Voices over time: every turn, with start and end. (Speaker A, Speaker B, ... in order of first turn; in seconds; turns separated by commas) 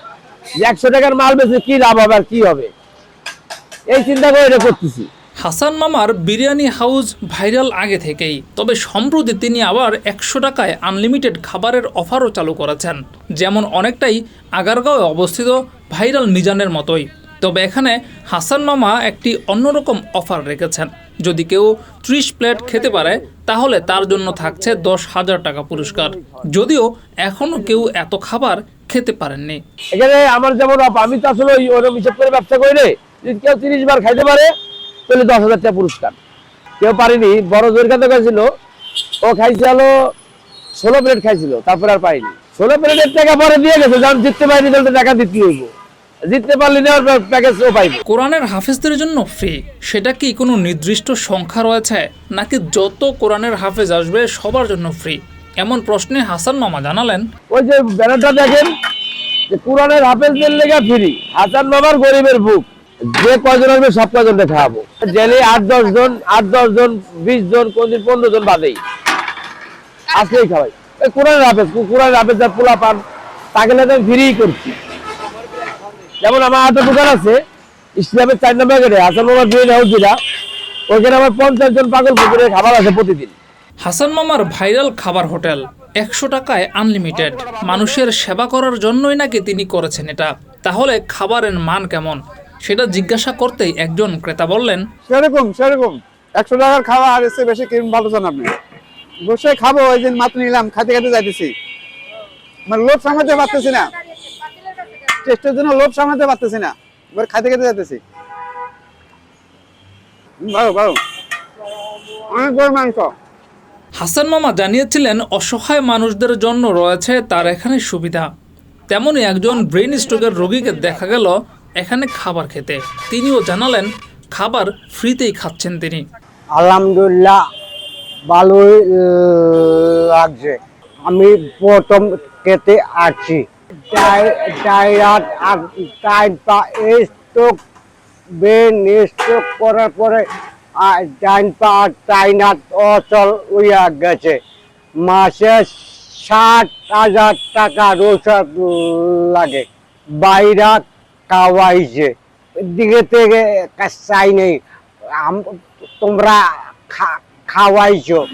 Speaker A: 0.6-2.7, Speaker A: 3.9-5.1, Speaker B: 5.4-29.6, Speaker A: 22.6-23.2, Speaker A: 23.9-24.8, Speaker A: 25.8-26.4, Speaker A: 29.9-34.5, Speaker A: 35.1-36.2, Speaker A: 36.8-38.4, Speaker A: 39.2-39.9, Speaker A: 40.8-45.7, Speaker A: 46.3-48.0, Speaker B: 48.1-57.2, Speaker A: 57.5-58.7, Speaker A: 59.5-68.8, Speaker A: 70.1-73.0, Speaker A: 73.5-74.8, Speaker A: 76.2-77.4, Speaker A: 78.0-80.1, Speaker A: 80.9-83.3, Speaker B: 83.8-94.8, Speaker A: 87.1-88.0, Speaker C: 95.1-98.6, Speaker C: 99.2-101.5, Speaker C: 102.7-103.9, Speaker C: 104.8-108.0, Speaker C: 110.4-111.0, Speaker C: 112.1-113.1, Speaker B: 114.0-118.3, Speaker B: 118.9-126.0, Speaker A: 119.6-121.0, Speaker D: 126.6-127.4, Speaker D: 128.3-130.6, Speaker D: 131.1-137.6, Speaker D: 138.4-140.2, Speaker D: 140.8-144.4, Speaker D: 145.0-149.7, Speaker D: 150.2-152.1, Speaker D: 152.7-154.6, Speaker D: 155.2-158.2